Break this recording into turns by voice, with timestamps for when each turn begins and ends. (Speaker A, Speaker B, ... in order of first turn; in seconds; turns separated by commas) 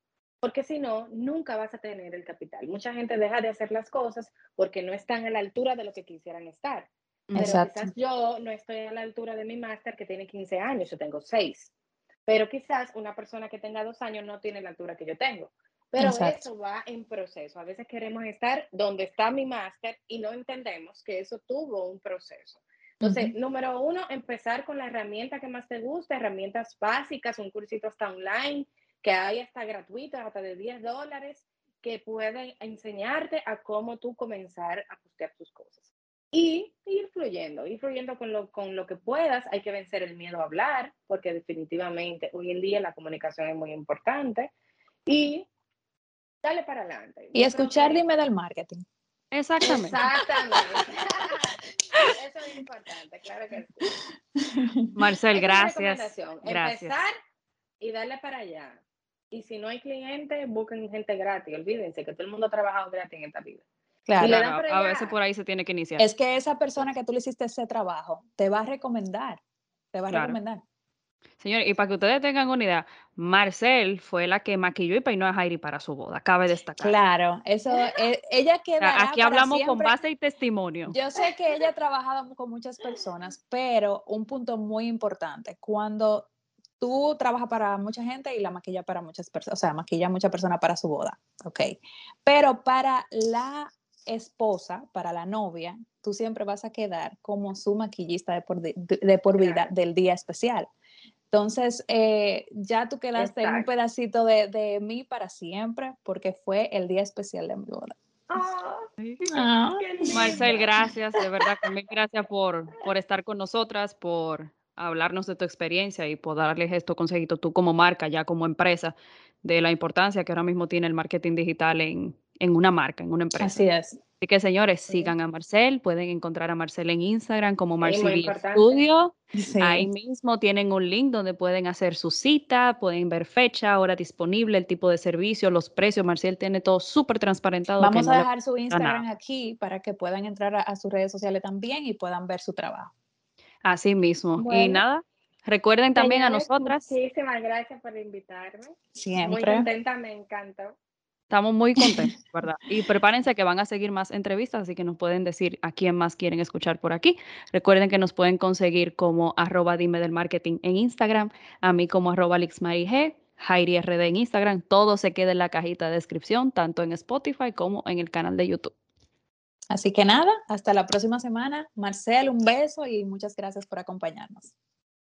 Speaker A: 0.4-11.7, Speaker B: 7.3-7.6, Speaker C: 7.4-7.9, Speaker A: 12.2-44.5, Speaker C: 16.0-16.5, Speaker C: 23.0-23.3, Speaker A: 45.0-45.5, Speaker A: 46.4-48.0, Speaker C: 47.3-48.8, Speaker B: 49.3-50.0, Speaker A: 49.6-51.6, Speaker A: 52.1-53.9, Speaker C: 54.4-54.9, Speaker B: 54.9-56.9, Speaker A: 55.3-57.1, Speaker A: 57.8-58.8, Speaker A: 59.3-63.6, Speaker C: 64.1-64.3, Speaker A: 64.2-65.2, Speaker B: 64.2-66.0, Speaker C: 66.0-69.4, Speaker C: 69.9-70.6, Speaker B: 70.1-70.4, Speaker B: 71.4-77.0, Speaker C: 76.8-80.0, Speaker B: 78.8-81.0, Speaker C: 80.9-86.3, Speaker C: 86.8-100.7, Speaker A: 99.4-99.7, Speaker C: 101.3-107.9, Speaker A: 103.2-103.7, Speaker A: 108.3-111.5, Speaker C: 109.2-110.5, Speaker B: 110.1-123.6, Speaker C: 123.4-124.0, Speaker B: 124.2-139.0, Speaker A: 127.8-128.8, Speaker C: 129.3-129.9, Speaker C: 137.8-142.9, Speaker B: 143.6-146.9, Speaker A: 144.4-144.8, Speaker A: 145.9-150.7, Speaker C: 148.9-149.7, Speaker B: 151.3-168.7, Speaker C: 169.7-174.5